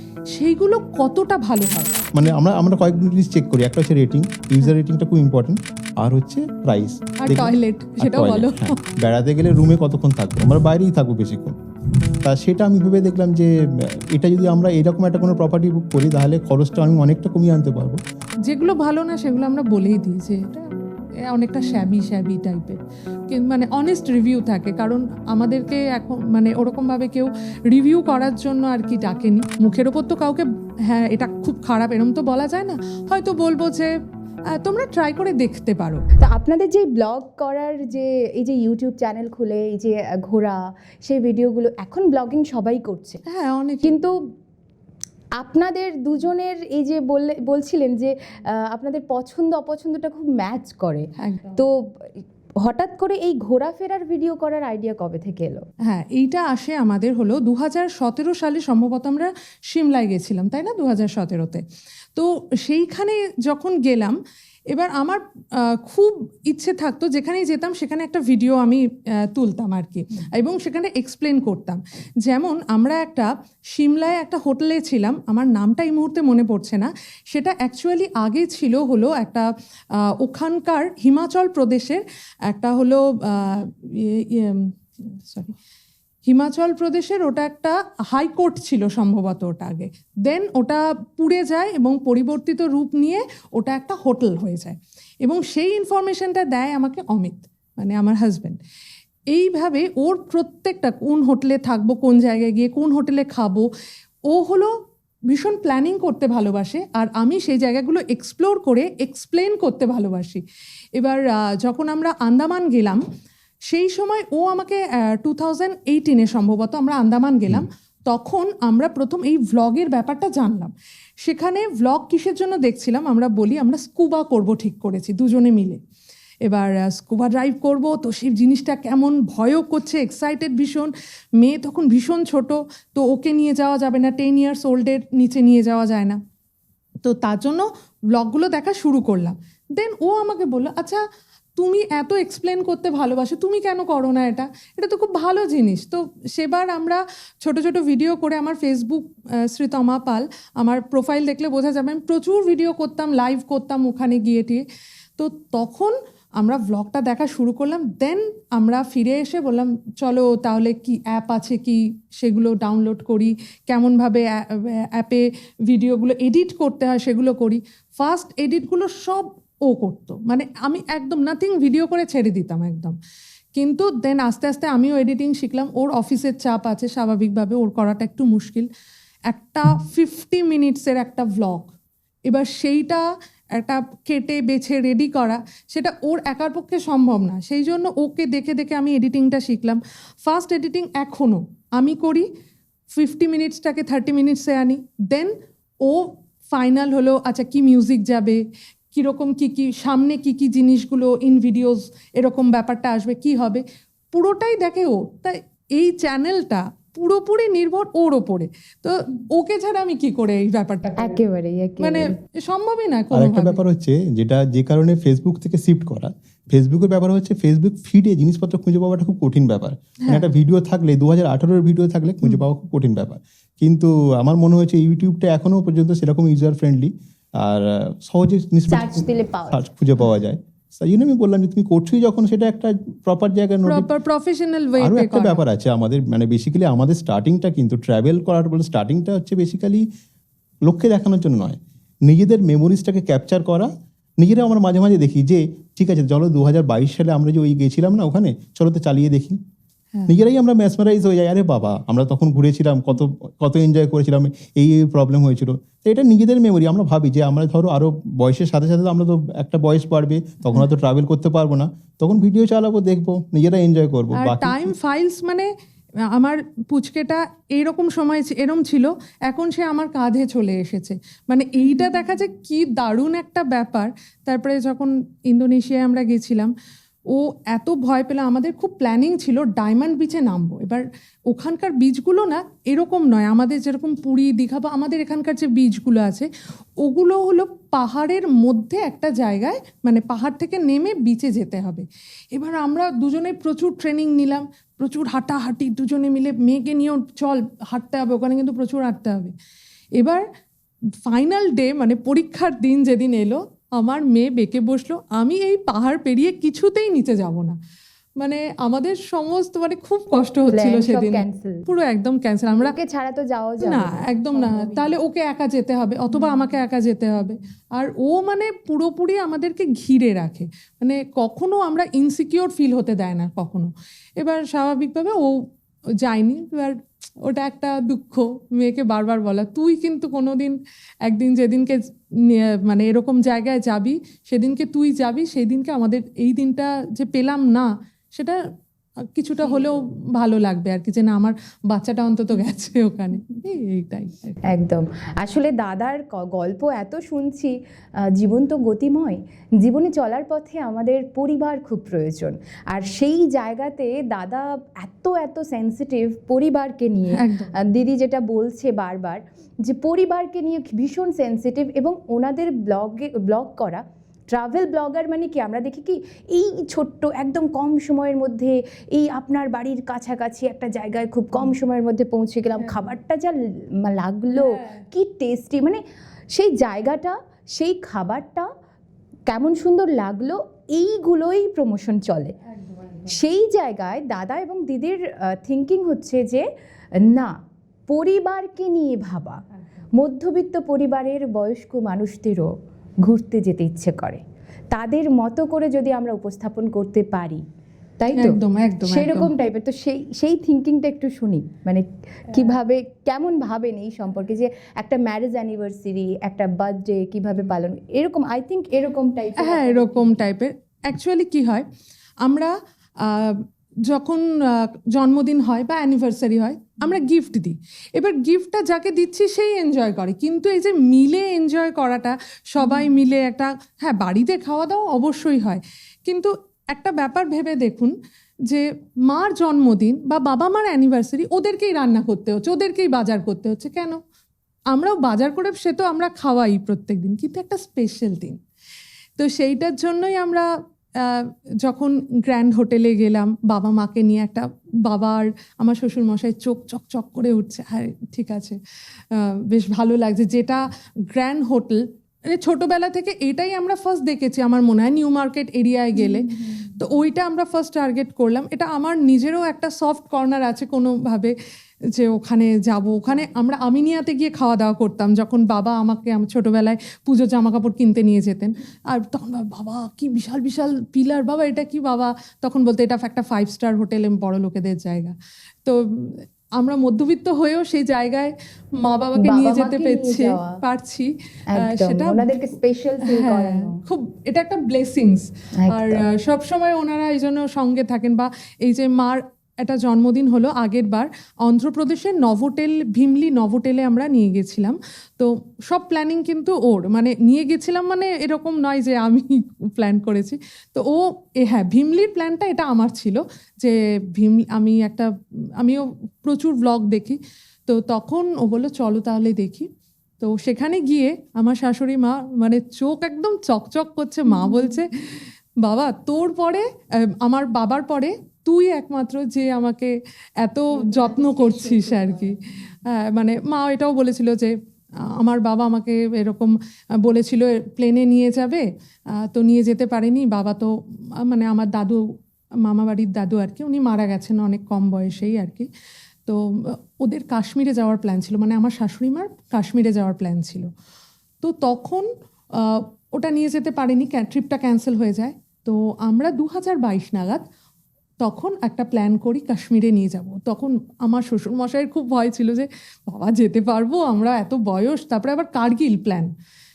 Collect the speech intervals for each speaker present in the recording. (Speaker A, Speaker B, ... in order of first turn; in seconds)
Speaker A: 0.3-2.0, 7.2-8.7, 18.5-20.7, 21.3-33.9, 34.5-36.0, 43.3-44.0, 51.2-51.6, 55.9-61.6, 62.1-64.2, 64.7-85.6, 86.3-98.6, 99.3-103.7, 104.3-104.7, 105.3-110.4, 111.0-113.0, 113.7-125.8, 126.5-136.2, 137.0-141.0, 141.6-154.6, 155.2-173.0, 173.6-178.7, 179.3-181.7, 182.3-192.3, 192.9-198.4, 198.9-211.2, 211.8-213.6, 233.7-235.4, 264.1-265.5, 266.1-276.5, 277.1-299.4, 300.0-300.2, 301.1-307.6, 308.2-312.8, 313.6-325.5, 326.0-338.4, 339.1-344.4, 357.1-357.5, 374.3-374.8, 382.6-383.1, 398.1-399.3, 409.4-411.7, 412.2-427.9, 428.5-434.0, 434.7-438.4, 439.2-448.6, 449.1-461.4, 461.9-482.4, 483.0-509.7, 510.2-532.0, 532.6-535.7, 536.3-540.7, 541.4-547.4, 548.2-556.3
Speaker B: 2.1-11.6, 12.2-18.0, 213.1-233.9, 234.8-239.8, 240.7-249.4, 250.1-264.7
Speaker C: 36.2-43.2, 43.8-44.2, 45.4-55.6, 211.0-212.2, 228.7-229.6, 310.5-311.7, 312.6-314.7, 344.4-375.8, 376.3-378.5, 379.3-382.4, 383.1-386.4, 387.0-387.3, 387.9-389.4, 390.0-392.5, 393.0-397.4, 398.0-410.2, 479.2-480.6, 481.5-483.8, 485.6-486.1, 514.4-514.8, 520.8-522.3